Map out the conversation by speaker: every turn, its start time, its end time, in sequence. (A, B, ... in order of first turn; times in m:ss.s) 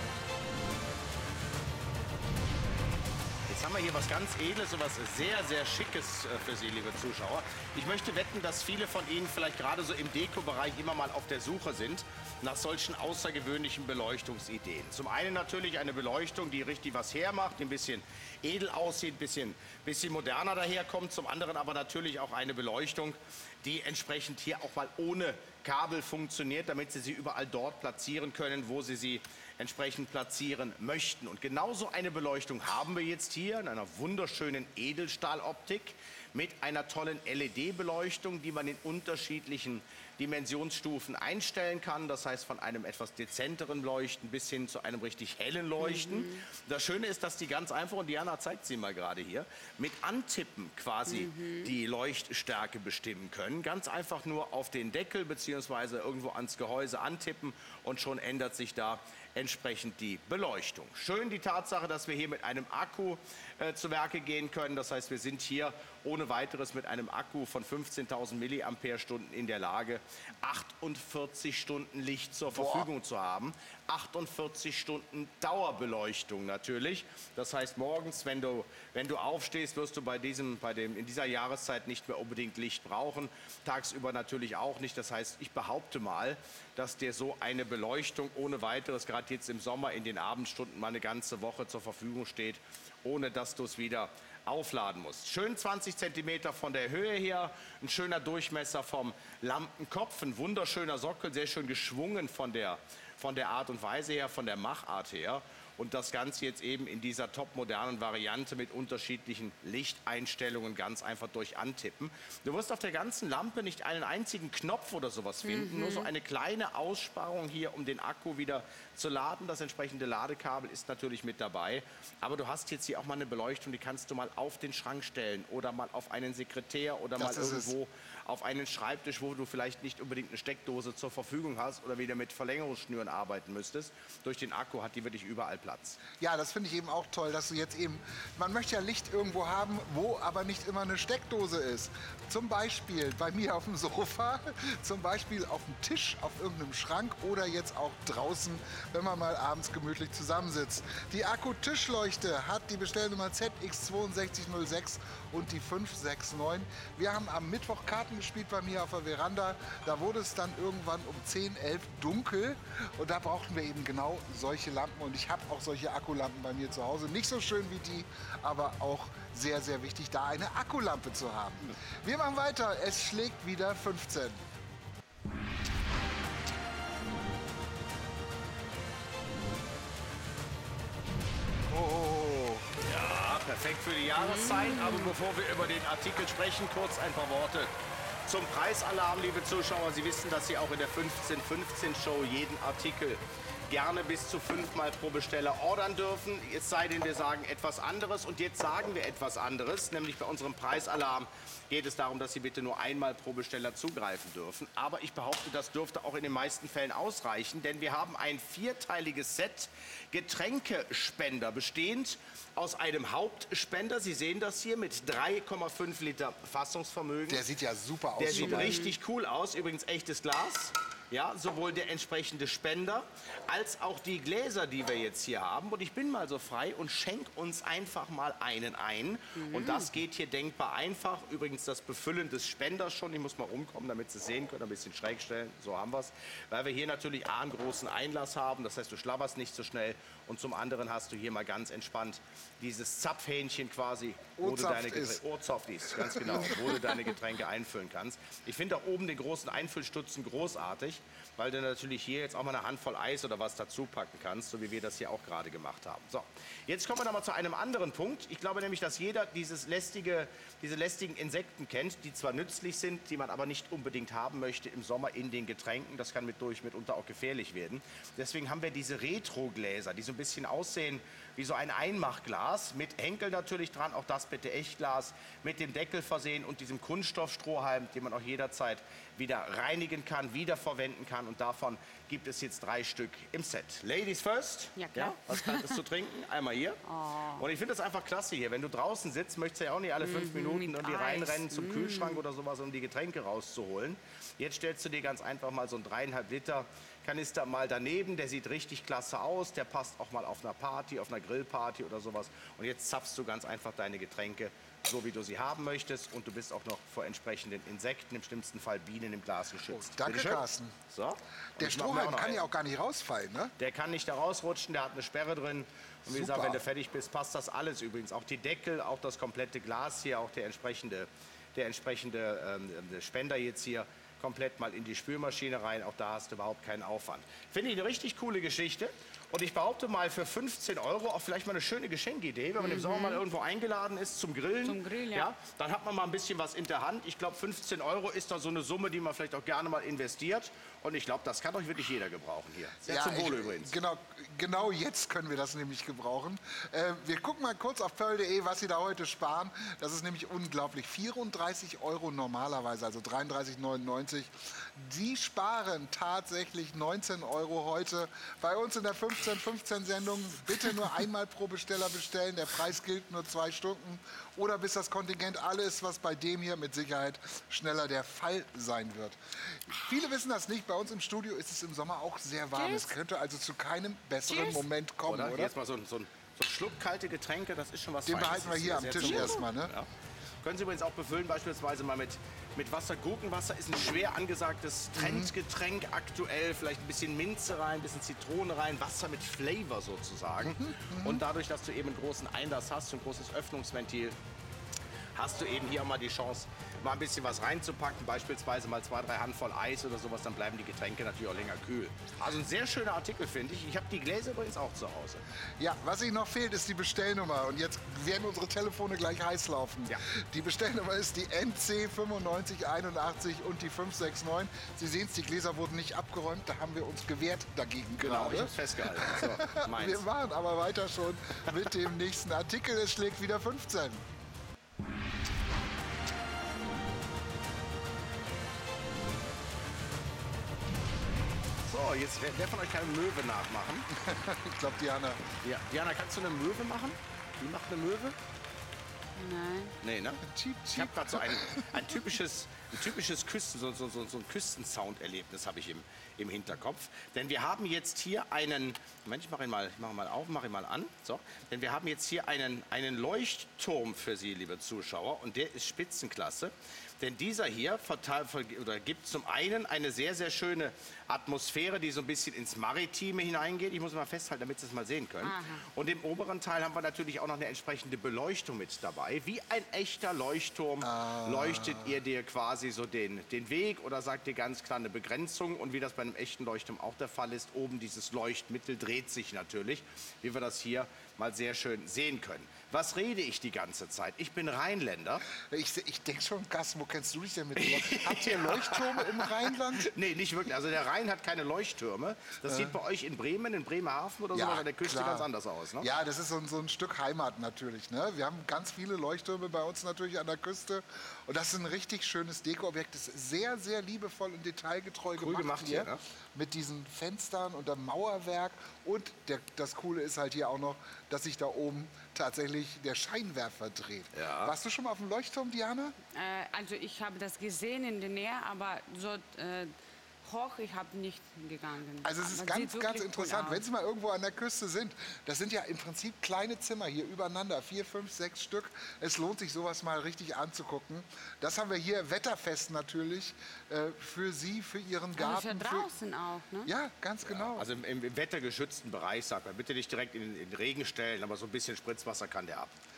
0:03.5-2:16.0 A
0:45.8-0:46.4 B
0:51.1-0:51.7 B
1:12.5-1:12.9 C
1:55.4-1:56.1 B
2:07.2-2:07.7 C
2:16.2-2:54.4 C
3:01.7-3:02.7 C
3:02.8-3:07.7 A
3:04.2-3:05.1 B
3:08.2-3:37.4 A
3:37.3-3:38.8 C
3:38.2-4:46.8 A
3:38.3-3:38.9 B
3:49.4-3:49.9 B
4:04.4-4:05.2 C
4:05.9-4:06.7 C
4:44.8-4:45.8 B
4:46.8-4:47.4 B
4:47.4-5:12.4 A
4:50.0-4:52.2 B
5:09.7-5:10.8 C
5:11.6-5:13.5 C
5:13.6-5:43.7 A
5:16.1-5:16.6 C
5:32.6-5:33.2 B
5:34.6-5:35.3 B
5:42.8-6:15.5 C
6:12.6-6:12.9 B
6:14.3-6:14.6 B
6:15.1-6:19.9 A
6:18.1-6:19.7 C
6:19.0-6:19.4 B
6:20.4-6:34.2 A
6:24.9-6:25.3 C
6:30.4-6:31.2 C
6:35.1-6:45.2 A
6:45.6-7:04.0 C
6:58.0-7:00.0 A
7:11.6-7:13.9 A
7:13.9-7:15.2 C
7:15.4-7:18.2 A
7:19.2-7:19.7 B
7:19.8-8:05.2 A
7:20.2-7:21.8 C
7:45.2-7:45.6 B
7:50.8-7:52.0 C
8:05.3-8:09.9 C
8:07.6-8:15.9 A
8:12.5-8:12.8 C
8:14.3-8:15.3 C
8:15.8-8:36.0 C
8:25.2-8:26.0 A
8:34.1-8:34.5 A
8:36.1-8:39.7 B
8:40.2-8:43.6 B
8:42.0-8:55.9 C
8:55.2-8:56.7 B
8:56.6-8:57.7 C
8:57.2-9:02.7 A